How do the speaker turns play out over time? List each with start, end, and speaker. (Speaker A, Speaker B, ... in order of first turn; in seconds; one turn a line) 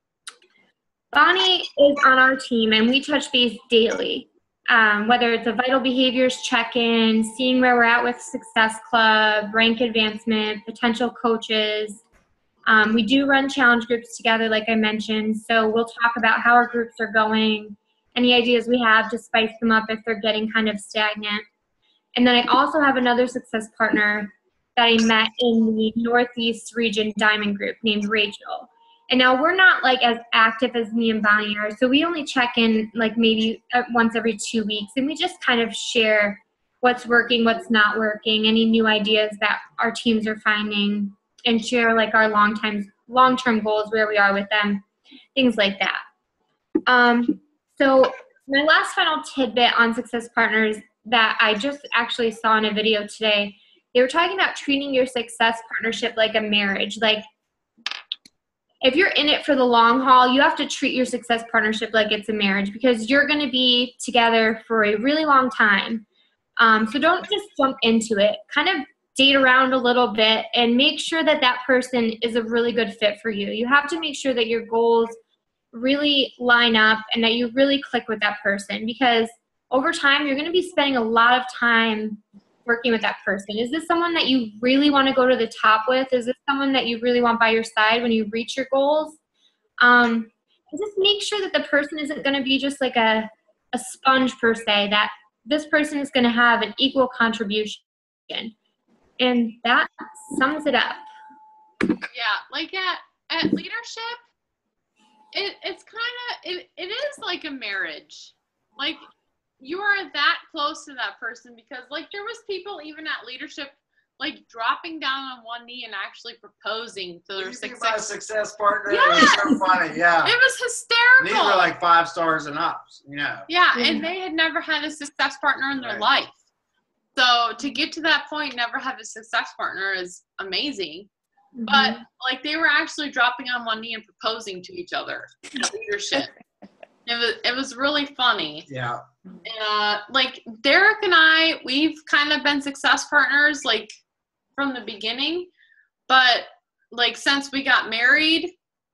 Speaker A: 1.1-12.0
Speaker A: 12.7-21.4
Speaker A: 22.1-44.8
Speaker A: 45.4-46.0
Speaker A: 46.9-57.2
Speaker A: 58.8-66.0
Speaker A: 66.6-75.2
Speaker A: 75.7-89.2
Speaker A: 89.8-98.5
Speaker A: 99.2-101.1
Speaker B: 102.1-104.2
Speaker B: 105.3-109.0
Speaker B: 109.6-118.0
Speaker C: 117.4-120.3
Speaker B: 118.9-119.6
Speaker B: 120.2-121.7
Speaker C: 121.2-123.5
Speaker B: 123.5-126.4
Speaker A: 123.7-124.0
Speaker C: 125.8-126.0
Speaker B: 127.2-131.1
Speaker A: 131.6-132.0
Speaker B: 131.7-136.3
Speaker B: 137.1-138.7
Speaker C: 138.7-139.0
Speaker B: 139.4-143.9
Speaker B: 144.6-145.5
Speaker B: 146.1-148.5